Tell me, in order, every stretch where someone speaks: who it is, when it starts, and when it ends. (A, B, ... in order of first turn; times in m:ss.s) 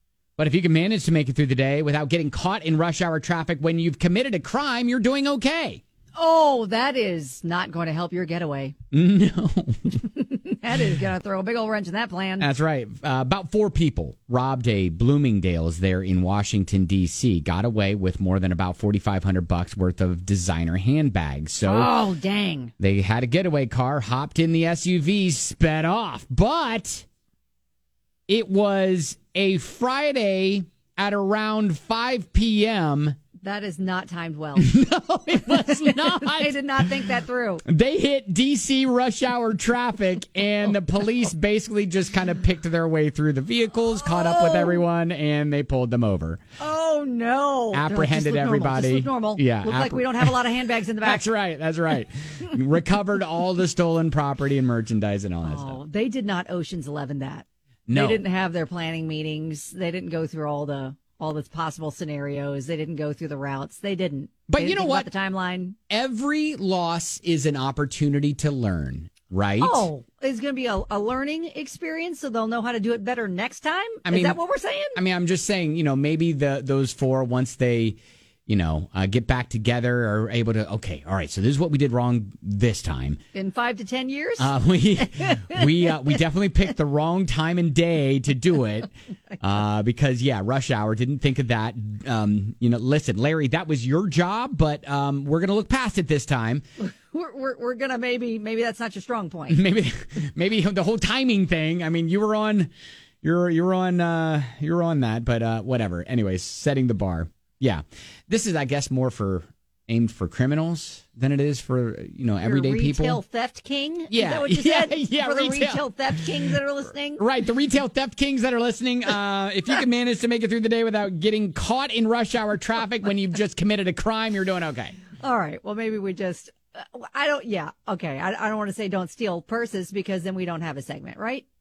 0:00.4-0:05.8 A
0:06.2-0:08.7 B
0:08.9-0:10.0 A
0:10.0-0:12.5 B
0:12.4-0:22.0 A
0:21.6-0:22.7 B
0:22.8-0:27.1 A
0:28.3-0:33.2 A
0:33.4-0:34.7 B
0:34.6-0:36.5 A
0:35.4-0:37.6 B
0:37.6-0:46.4 A
0:44.0-0:44.8 B
0:46.6-0:51.3 B
0:47.7-0:50.4 A
0:51.0-0:55.8 A
0:55.4-1:05.8 B
0:57.9-0:58.2 A
1:04.5-1:05.1 A
1:05.9-1:09.9 A
1:09.6-1:15.0 B
1:14.1-1:14.4 A
1:15.0-1:23.2 A
1:23.3-1:24.5 B
1:24.4-1:36.6 A
1:25.0-1:26.0 B
1:36.8-1:39.6 B
1:39.5-1:42.7 A
1:43.2-1:53.2 A
1:52.4-1:57.2 B
1:54.1-1:56.3 A
1:57.2-2:05.0 A
2:05.2-2:11.4 B